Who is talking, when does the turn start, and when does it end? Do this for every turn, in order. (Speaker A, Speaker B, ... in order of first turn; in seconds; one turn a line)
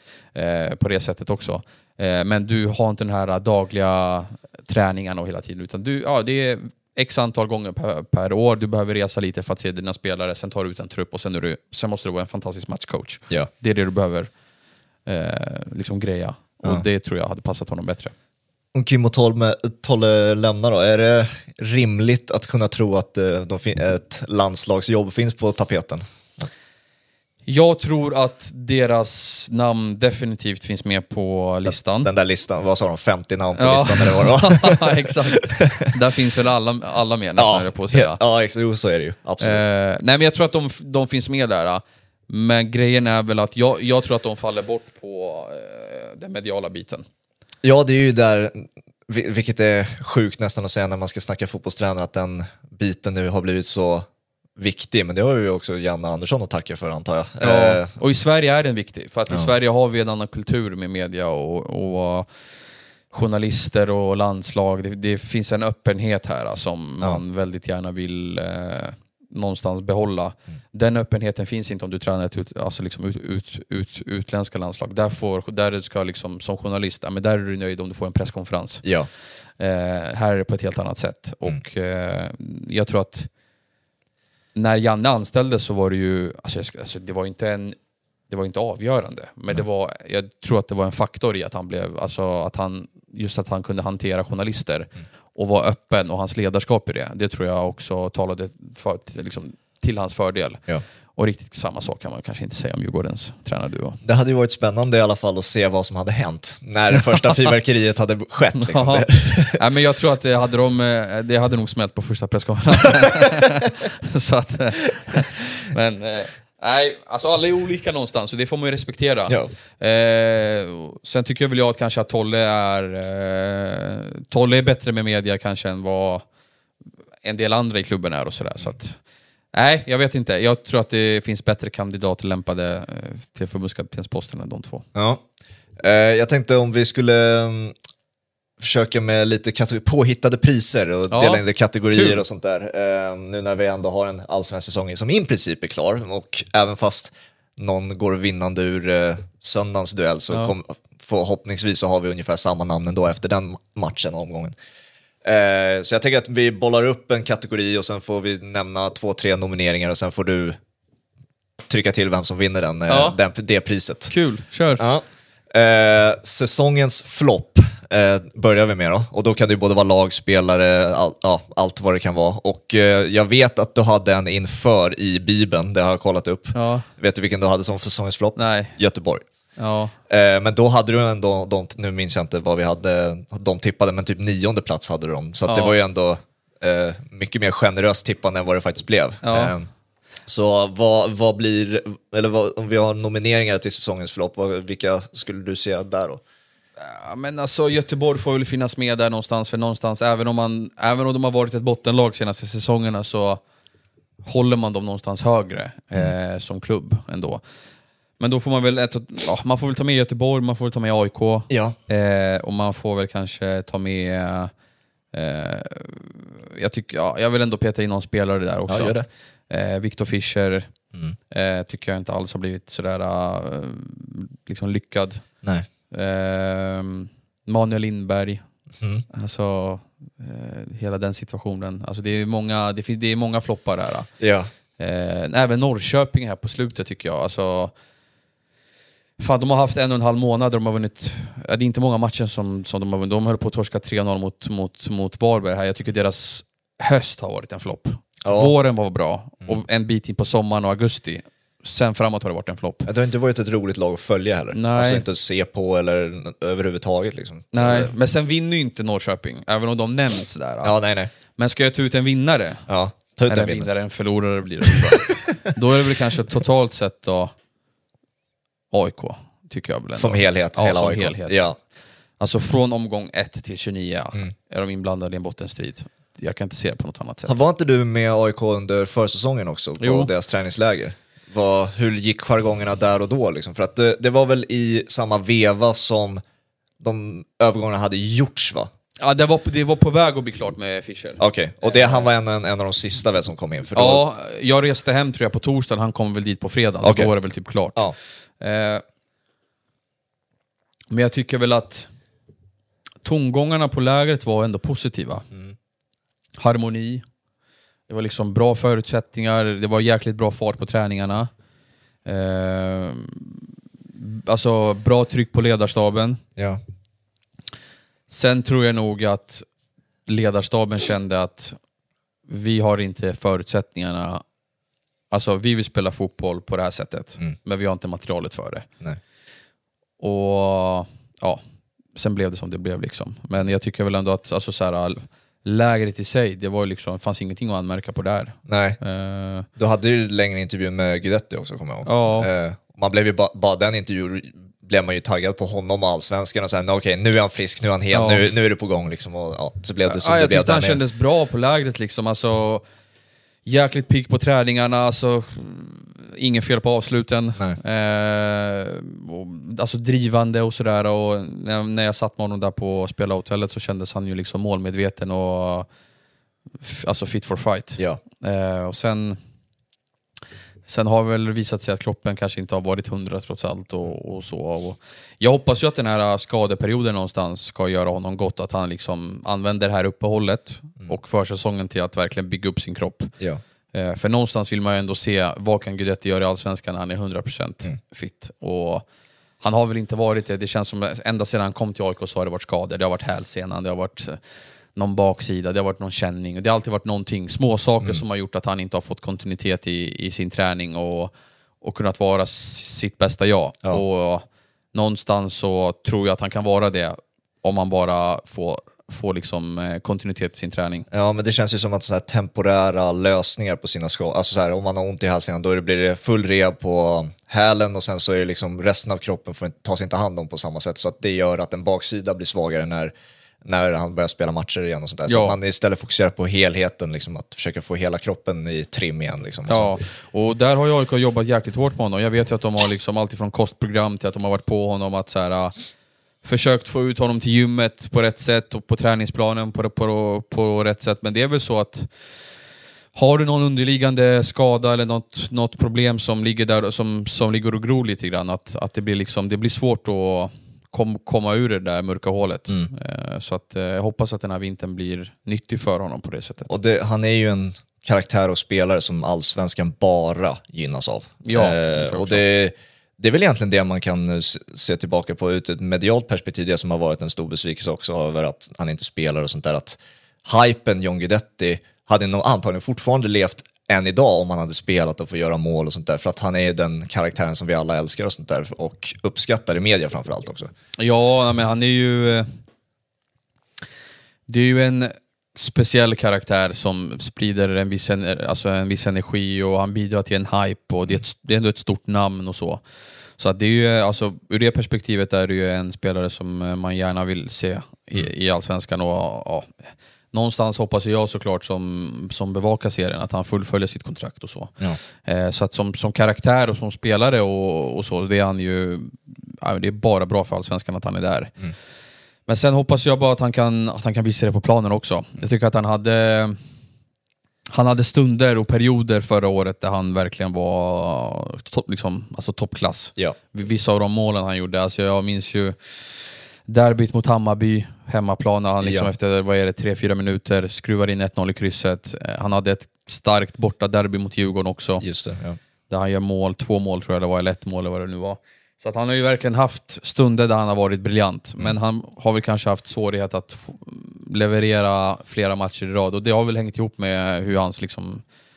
Speaker A: 0.3-14.3
Speaker A: 15.1-18.1
Speaker B: 18.7-26.5
Speaker A: 27.5-32.1
Speaker B: 32.0-35.9
Speaker A: 33.5-38.2
Speaker B: 37.4-39.6
Speaker A: 39.4-47.0
Speaker B: 47.6-57.9
Speaker A: 57.4-62.3
Speaker A: 63.1-78.8
Speaker B: 78.8-79.1
Speaker A: 79.6-83.3
Speaker A: 84.5-87.8
Speaker A: 88.3-100.6
Speaker A: 101.2-104.0
Speaker B: 104.0-109.6
Speaker A: 108.5-126.2
Speaker A: 127.2-129.0
Speaker A: 129.5-134.9
Speaker B: 134.9-135.2
Speaker B: 135.8-137.8
Speaker B: 138.6-154.5
Speaker A: 141.1-142.2
Speaker B: 155.2-160.6
Speaker B: 161.7-164.1
Speaker A: 162.9-163.2
Speaker A: 164.1-164.8
Speaker B: 164.8-179.2
Speaker A: 176.5-176.9
Speaker A: 178.4-178.8
Speaker A: 179.6-179.9
Speaker B: 180.1-189.7
Speaker A: 185.5-185.8
Speaker A: 189.2-189.6
Speaker B: 190.3-196.2
Speaker A: 196.8-203.4
Speaker A: 204.2-207.4
Speaker A: 208.2-214.5
Speaker B: 211.5-211.8
Speaker A: 215.1-219.0
Speaker B: 218.7-219.1
Speaker A: 219.5-220.7
Speaker A: 221.3-225.2
Speaker A: 225.9-228.4
Speaker A: 229.1-234.1
Speaker B: 234.2-234.5
Speaker A: 234.8-237.7
Speaker A: 239.2-252.9
Speaker B: 248.2-248.5
Speaker B: 252.9-257.9
Speaker A: 254.5-255.1
Speaker A: 257.5-260.8
Speaker B: 260.6-261.1
Speaker A: 261.4-262.7
Speaker B: 262.7-263.7
Speaker A: 263.3-267.3
Speaker B: 264.7-265.5
Speaker A: 268.7-271.5
Speaker B: 270.0-271.6
Speaker A: 272.2-277.4
Speaker B: 277.3-286.2
Speaker A: 279.8-280.1
Speaker B: 286.8-288.7
Speaker A: 289.0-292.1
Speaker B: 291.2-294.0
Speaker A: 293.7-298.8
Speaker B: 296.8-297.1
Speaker A: 300.9-301.9
Speaker A: 303.0-305.2
Speaker A: 306.4-307.0
Speaker A: 307.9-311.3
Speaker A: 312.1-313.4
Speaker A: 314.0-316.2
Speaker A: 318.1-319.5
Speaker A: 320.1-321.6
Speaker A: 322.3-324.2
Speaker A: 325.1-328.7
Speaker A: 330.0-331.4
Speaker A: 331.9-339.5
Speaker B: 338.5-338.8
Speaker B: 339.6-350.8
Speaker A: 341.9-342.3
Speaker A: 347.9-348.3
Speaker A: 349.9-352.6
Speaker A: 353.4-365.7
Speaker A: 366.6-369.2
Speaker A: 370.7-383.1
Speaker A: 383.7-388.8
Speaker A: 389.4-394.2
Speaker A: 394.8-410.9
Speaker B: 410.9-422.9
Speaker B: 423.4-429.8
Speaker A: 425.1-425.4
Speaker A: 429.5-435.5
Speaker A: 436.2-441.9
Speaker A: 442.9-456.5
Speaker B: 456.5-480.5
Speaker A: 461.2-462.2
Speaker A: 480.8-482.3
Speaker A: 484.3-492.6
Speaker A: 493.2-499.5
Speaker A: 500.1-511.4
Speaker A: 512.3-516.4
Speaker A: 517.5-534.8
Speaker B: 528.6-528.9
Speaker B: 534.8-535.4
Speaker A: 535.7-548.0